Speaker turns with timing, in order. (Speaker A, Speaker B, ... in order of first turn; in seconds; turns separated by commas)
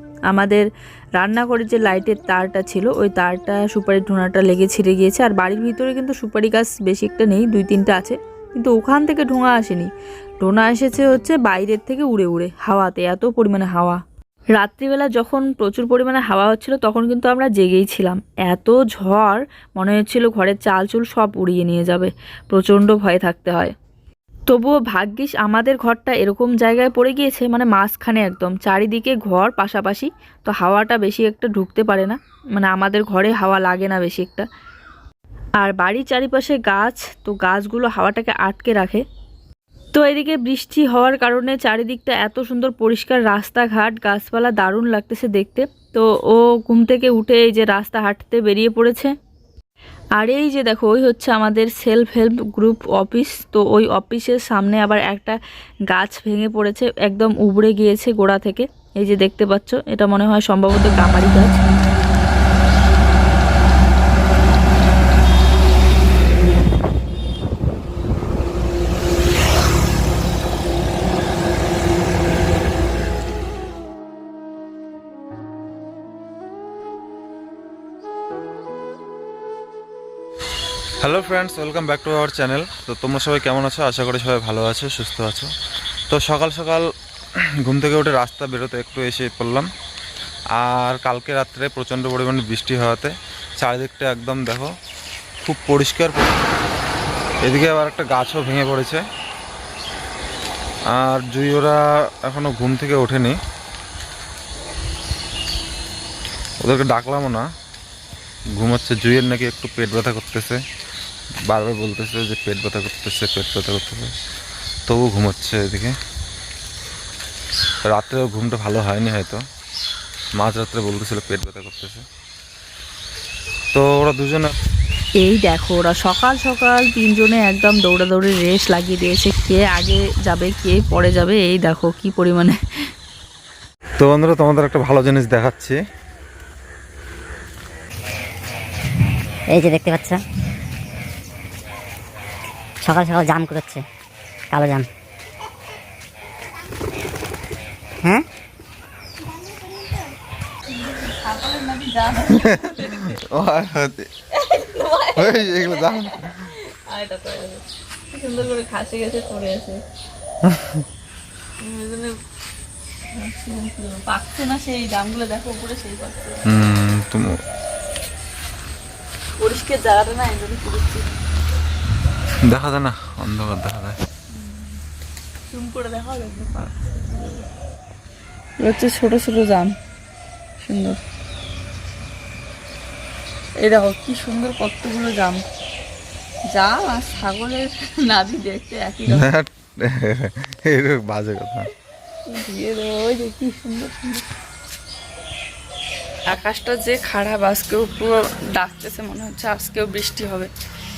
Speaker A: 0.3-9.9, Speaker A: 10.4-14.0, Speaker A: 14.6-23.7, Speaker A: 24.5-34.5, Speaker A: 35.6-39.0, Speaker A: 39.9-49.1, Speaker A: 50.2-55.4, Speaker A: 55.9-61.7, Speaker B: 81.0-85.5, Speaker B: 86.1-86.8, Speaker B: 87.4-89.7, Speaker B: 90.5-94.7, Speaker B: 95.4-96.4, Speaker B: 97.4-99.0, Speaker B: 100.9-103.4, Speaker B: 106.6-107.4, Speaker B: 108.6-110.6, Speaker B: 111.5-114.1, Speaker B: 114.9-115.9, Speaker B: 117.9-119.4, Speaker B: 120.4-122.0, Speaker B: 123.7-124.6, Speaker A: 125.2-132.6, Speaker B: 134.0-135.8, Speaker C: 139.5-140.2, Speaker C: 142.8-143.8, Speaker C: 144.5-144.9, Speaker A: 150.9-153.2, Speaker B: 152.4-154.1, Speaker A: 154.4-159.8, Speaker B: 155.2-156.4, Speaker B: 160.4-160.8, Speaker A: 161.6-162.2, Speaker A: 163.1-166.5, Speaker B: 166.5-167.4, Speaker A: 169.4-171.1, Speaker B: 172.5-174.0, Speaker A: 175.5-177.5, Speaker A: 178.6-179.7, Speaker A: 180.6-181.0, Speaker A: 183.6-185.4, Speaker A: 186.5-189.3, Speaker B: 189.1-191.7, Speaker A: 192.3-194.2, Speaker A: 196.3-200.5